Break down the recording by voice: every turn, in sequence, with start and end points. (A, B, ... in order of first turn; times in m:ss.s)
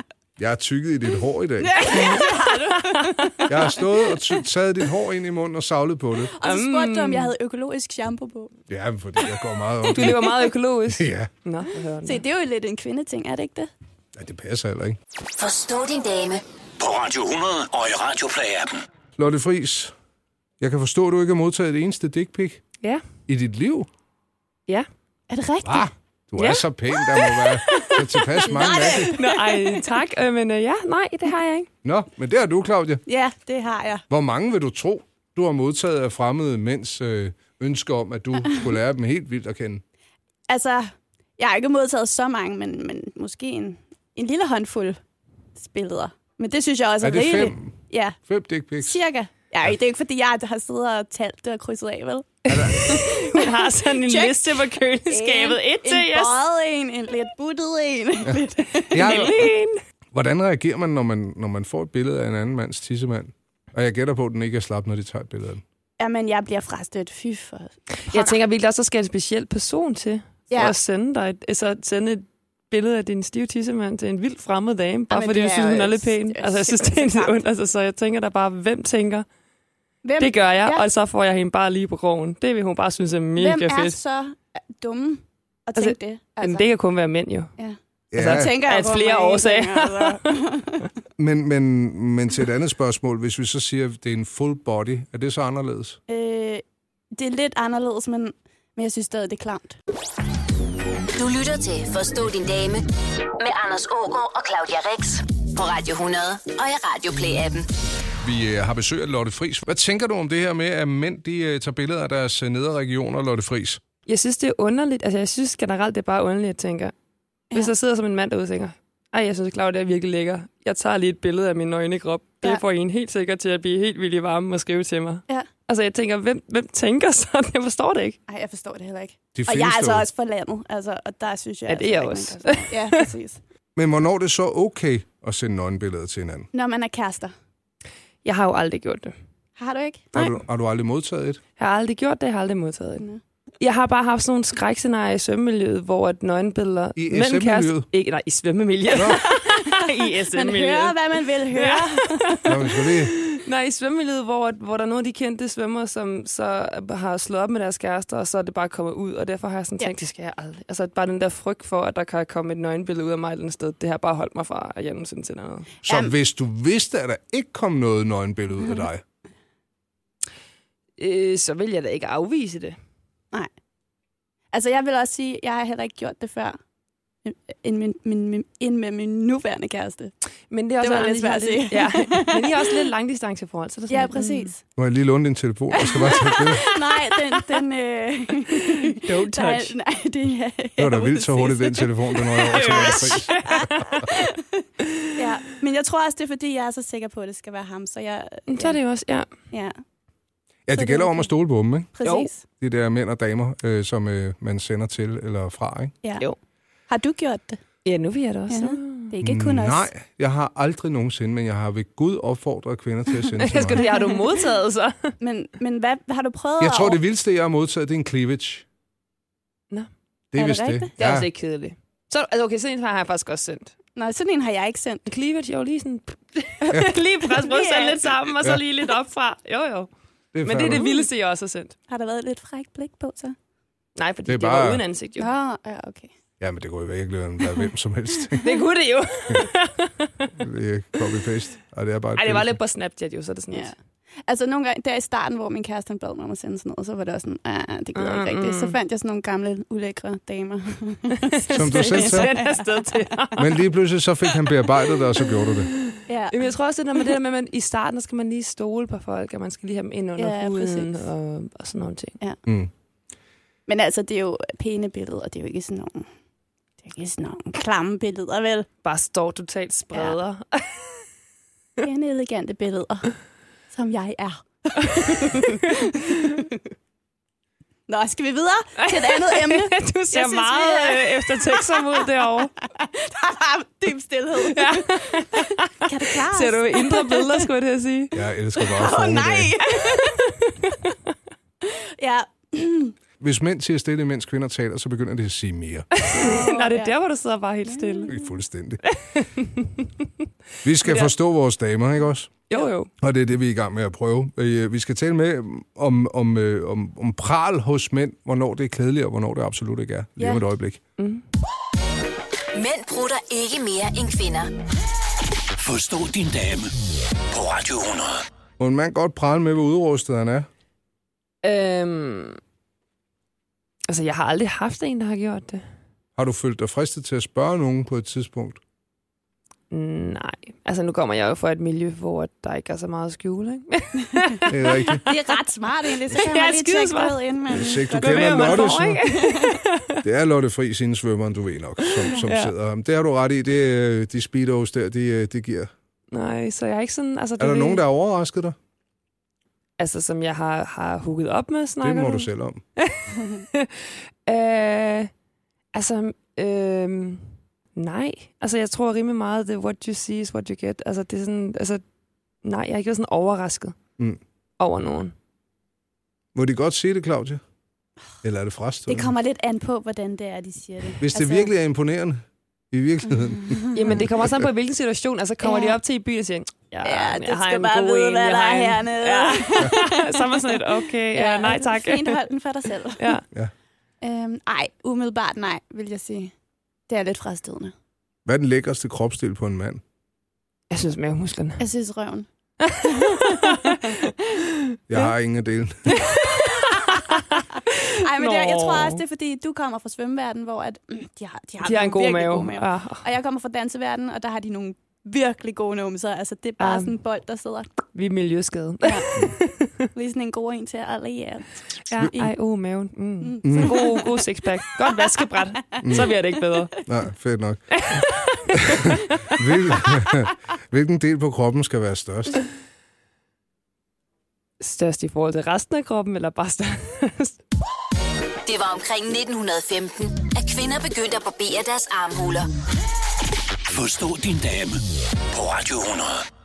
0:00.4-0:02.0 A
0:01.6-0:04.1 B
0:01.8-0:03.5 C
0:03.5-0:06.3 A
0:06.3-0:08.5 B
0:06.4-0:07.3 C
0:08.7-0:11.3 A
0:09.9-0:12.2 C
0:12.0-0:13.7 B
0:14.1-0:15.0 A
0:15.4-0:16.4 D
0:16.8-0:18.8 E
0:19.2-0:19.9 A
0:20.6-0:22.6 A
0:23.3-0:23.9 A
0:25.3-0:25.9 B
0:25.6-0:29.2 A
0:26.4-0:31.7 C
0:27.6-0:29.8 B
0:31.8-0:33.0 A
0:33.0-0:34.0 B
0:34.1-0:39.8 A
0:40.5-0:45.0 B
0:45.6-0:48.2 B
0:47.0-0:47.8 A
0:48.3-0:49.0 A
0:48.8-0:59.4 B
0:52.5-0:56.4 C
0:52.5-0:53.1 A
0:58.2-0:59.4 A
0:58.9-0:59.8 C
1:00.1-1:05.6 A
1:06.0-1:08.4 B
1:08.0-1:19.2 C
1:10.5-1:10.8 B
1:15.1-1:17.4 B
1:20.0-1:20.8 B
1:20.2-1:24.0 C
1:23.4-1:26.7 B
1:25.8-1:27.5 C
1:27.6-1:30.9 B
1:28.1-1:28.6 A
1:28.1-1:30.2 C
1:31.2-1:36.0 A
1:36.1-1:36.6 B
1:37.1-1:39.8 B
1:41.2-1:42.8 D
1:43.4-1:47.7 D
1:48.2-1:53.8 A
1:54.1-1:56.9 C
1:57.5-2:08.2 C
2:08.3-2:13.4 B
2:09.3-2:10.1 A
2:11.7-2:13.1 C
2:13.7-2:16.5 A
2:16.5-2:17.3 B
2:18.2-2:19.1 C
2:19.6-2:20.3 B
2:20.1-2:21.4 A
2:21.6-2:23.0 C
2:23.6-2:31.0 C
2:27.0-2:27.9 A
2:28.9-2:29.2 A
2:29.1-2:32.4 B
2:31.5-2:45.7 C
2:32.4-2:33.2 A
2:45.8-2:49.0 A
2:45.8-2:46.1 B
2:51.0-2:52.8 C
2:54.5-2:56.6 B
2:57.2-3:00.1 B
3:00.5-3:04.5 C
3:00.8-3:02.7 B
3:03.9-3:04.6 B
3:04.8-3:06.6 A
3:05.8-3:18.8 B
3:06.7-3:07.4 C
3:08.5-3:09.7 C
3:10.8-3:13.4 A
3:12.3-3:14.0 C
3:18.5-3:19.3 C
3:19.5-3:19.8 B
3:20.7-3:22.0 A
3:20.7-3:21.3 B
3:22.0-3:22.4 B
3:22.0-3:22.3 C
3:22.6-3:25.9 A
3:26.9-3:27.6 B
3:27.8-3:29.1 C
3:28.5-3:29.9 B
3:29.2-3:33.9 A
3:33.4-3:35.1 C
3:35.2-3:37.0 B
3:36.6-3:38.6 A
3:40.3-3:41.3 A
3:40.3-3:40.9 B
3:41.0-3:43.7 C
3:44.0-3:45.0 B
3:45.0-3:49.9 C
3:46.7-3:48.1 B
3:50.3-3:50.9 A
3:50.4-3:51.8 C
3:50.7-3:51.0 B
3:51.9-3:53.4 B
3:54.0-3:55.3 C
3:54.3-3:54.8 A
3:55.2-3:56.1 B
3:56.4-3:58.5 A
3:58.4-4:00.3 C
4:00.4-4:02.6 A
4:02.1-4:03.7 C
4:04.2-4:12.6 B
4:07.9-4:08.8 C
4:11.3-4:13.6 C
4:11.5-4:12.3 A
4:13.4-4:15.7 A
4:15.8-4:22.2 C
4:16.1-4:16.4 B
4:20.2-4:21.0 B
4:23.7-4:26.1 B
4:26.8-4:28.7 B
4:28.8-4:31.0 C
4:31.8-4:33.2 B
4:33.7-4:36.6 B
4:34.8-4:36.3 C
4:37.9-4:42.0 B
4:38.8-4:42.5 C
4:42.8-4:47.4 B
4:44.4-4:48.2 C
4:48.1-4:49.5 A
4:48.6-4:50.4 B
4:49.8-4:50.9 C
4:51.6-4:52.9 B
4:53.2-4:55.9 A
4:55.9-4:58.2 C
4:56.1-4:56.9 B
4:57.6-4:58.2 B
4:58.1-4:58.8 A
4:58.8-5:00.1 C
5:00.6-5:02.3 A
5:00.8-5:01.1 C
5:02.5-5:02.9 C
5:03.0-5:10.8 A
5:11.0-5:11.2 C
5:12.5-5:14.5 D
5:15.6-5:16.7 E
5:17.3-5:18.2 E
5:18.6-5:20.5 A
5:21.4-5:22.4 C
5:23.9-5:25.6 C
5:26.2-5:28.6 A
5:29.7-5:35.3 C
5:34.5-5:35.0 A
5:35.0-5:39.6 B
5:36.0-5:37.2 C
5:37.5-5:39.0 A
5:37.9-5:40.0 C
5:40.0-5:45.7 A
5:41.8-5:42.5 C
5:46.1-5:47.8 C
5:47.4-5:48.6 A
5:49.8-5:55.1 C
5:51.8-5:52.6 A
5:55.7-6:01.8 C
6:02.4-6:03.8 C
6:04.6-6:05.1 C
6:06.3-6:07.4 A
6:08.2-6:09.1 A
6:08.9-6:11.5 B
6:11.0-6:14.4 A
6:13.4-6:13.9 B
6:13.7-6:22.2 C
6:15.4-6:15.8 B
6:16.8-6:20.3 B
6:21.1-6:23.1 B
6:23.0-6:23.2 C
6:24.0-6:26.3 B
6:26.9-6:27.7 B
6:28.2-6:29.8 A
6:30.7-6:31.6 C
6:31.6-6:32.3 B
6:32.6-6:33.9 C
6:32.8-6:34.1 B
6:34.9-6:36.0 A
6:35.9-6:39.0 C
6:36.2-6:37.0 B
6:38.0-6:47.8 B
6:41.6-6:43.0 C
6:46.6-6:47.0 C
6:47.9-6:49.9 C
6:48.8-6:49.1 B
6:49.9-6:52.3 B
6:51.9-6:56.7 C
6:53.2-6:54.2 B
6:53.4-6:53.8 A
6:55.7-6:56.1 B
6:55.8-6:56.1 A
6:56.8-7:02.4 A
6:57.7-6:59.3 C
7:04.6-7:07.4 C
7:08.4-7:12.5 D
7:13.7-7:16.2 E